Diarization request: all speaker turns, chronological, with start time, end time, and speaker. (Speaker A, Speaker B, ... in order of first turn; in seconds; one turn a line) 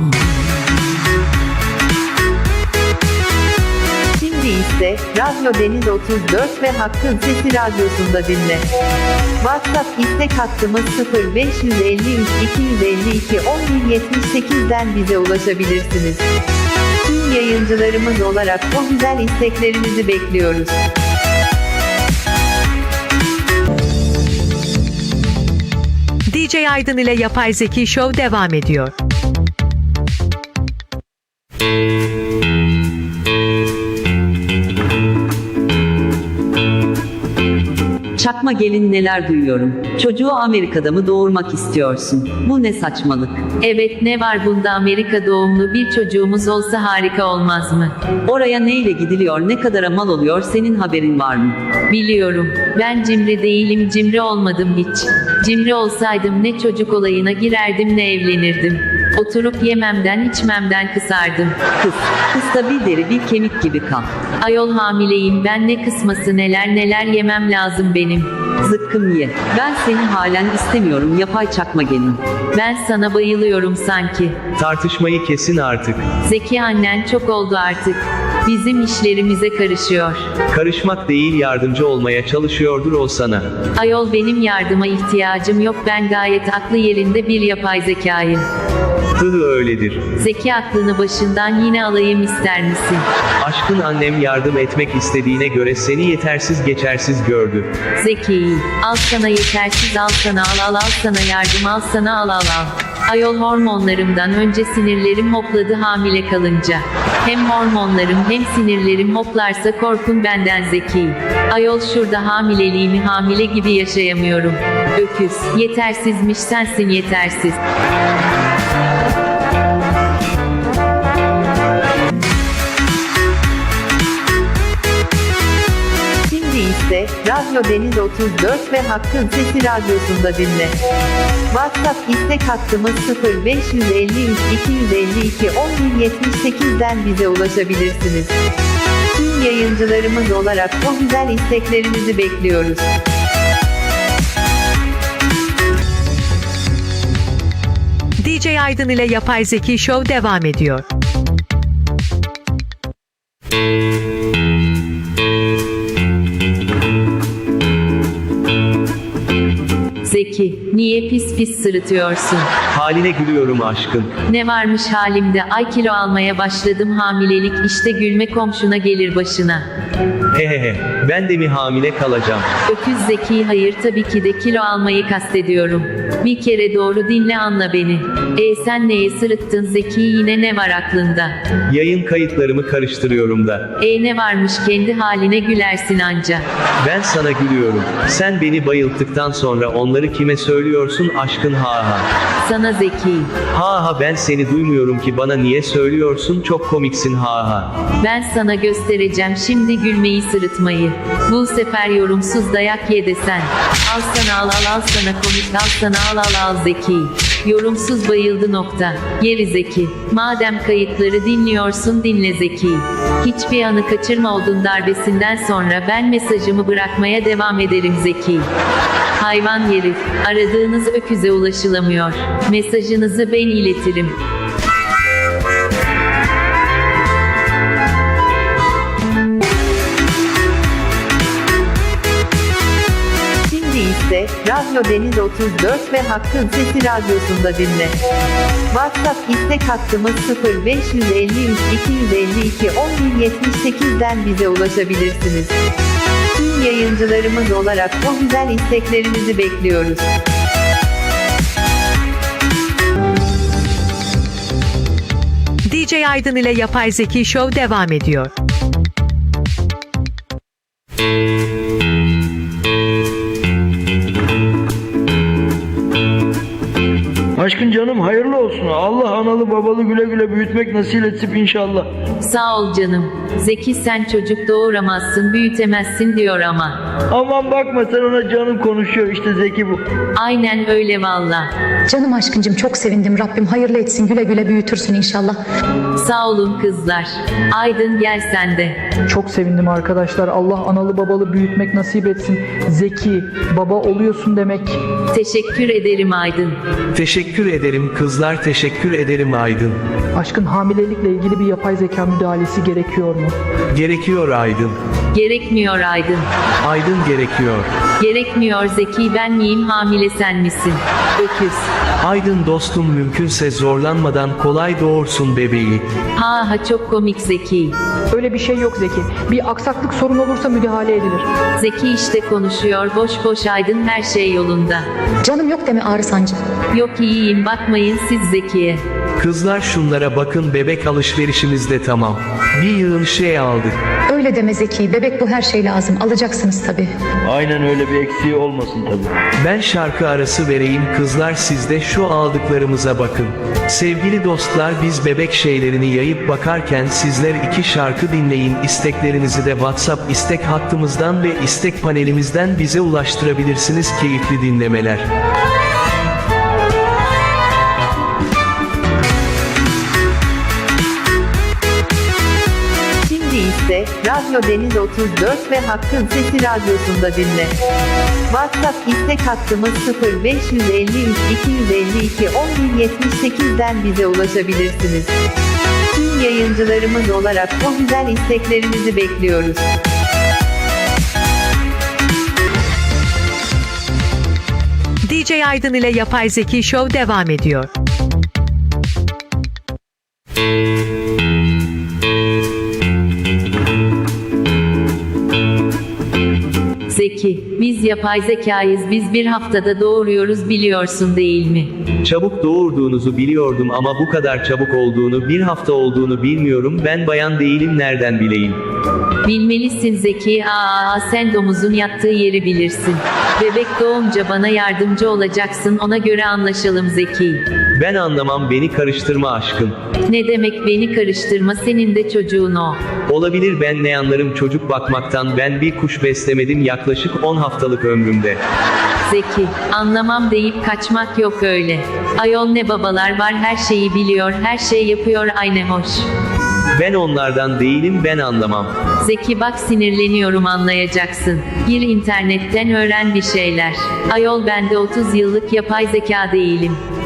Speaker A: 4.2-8.7
Speaker A: 9.4-16.2
Speaker A: 17.1-20.8
Speaker B: 26.3-28.9
Speaker C: 38.2-43.5
Speaker D: 43.6-47.9
Speaker C: 48.2-51.6
Speaker D: 51.9-61.6
Speaker C: 61.8-64.1
Speaker D: 64.4-68.3
Speaker C: 68.6-72.2
Speaker D: 72.5-74.4
Speaker E: 74.6-76.0
Speaker D: 76.2-80.3
Speaker E: 80.5-83.5
Speaker D: 83.8-88.4
Speaker E: 89.2-90.0
Speaker D: 90.1-93.0
Speaker E: 93.4-97.7
Speaker D: 98.0-117.6
Speaker A: 126.2-130.8
Speaker A: 131.5-138.3
Speaker A: 139.2-142.9
Speaker B: 148.2-150.8
Speaker D: 160.0-162.5
Speaker E: 162.7-164.1
Speaker D: 164.2-169.7
Speaker E: 170.3-172.5
Speaker D: 172.7-181.3
Speaker E: 181.7-183.7
Speaker D: 183.8-186.4
Speaker E: 186.8-192.1
Speaker D: 192.4-193.3
Speaker E: 193.5-197.7
Speaker D: 198.0-218.5
Speaker D: 219.2-224.2
Speaker A: 233.4-238.0
Speaker A: 238.7-245.6
Speaker A: 246.3-250.1
Speaker B: 255.7-258.3
Speaker F: 267.4-271.9
Speaker D: 272.2-276.8
Speaker F: 277.1-279.8
Speaker D: 280.1-281.5
Speaker G: 281.9-285.4
Speaker D: 285.9-288.8
Speaker H: 289.1-294.8
Speaker D: 295.1-296.6
Speaker E: 296.9-299.8
Speaker H: 300.1-303.4
Speaker E: 303.7-304.8
Speaker D: 305.1-306.3
Speaker E: 306.6-307.7
Speaker D: 308.0-311.7
Speaker E: 312.0-315.8
Speaker D: 316.1-317.8
Speaker H: 318.1-321.3
Speaker D: 321.6-324.9
Speaker G: 325.2-326.4
Speaker D: 326.7-328.8
Speaker E: 329.2-333.8
Speaker G: 334.1-336.9
Speaker F: 337.3-339.1
Speaker E: 339.4-355.1
Speaker A: 363.0-367.6
Speaker A: 368.3-375.1
Speaker A: 375.9-379.7
Speaker B: 385.0-387.7
Speaker D: 396.9-401.7
Speaker E: 402.0-408.6
Speaker D: 409.2-417.4
Speaker E: 417.7-419.8
Speaker D: 420.1-422.8
Speaker E: 423.1-428.4
Speaker D: 429.1-436.1
Speaker E: 436.7-438.7
Speaker D: 439.0-446.8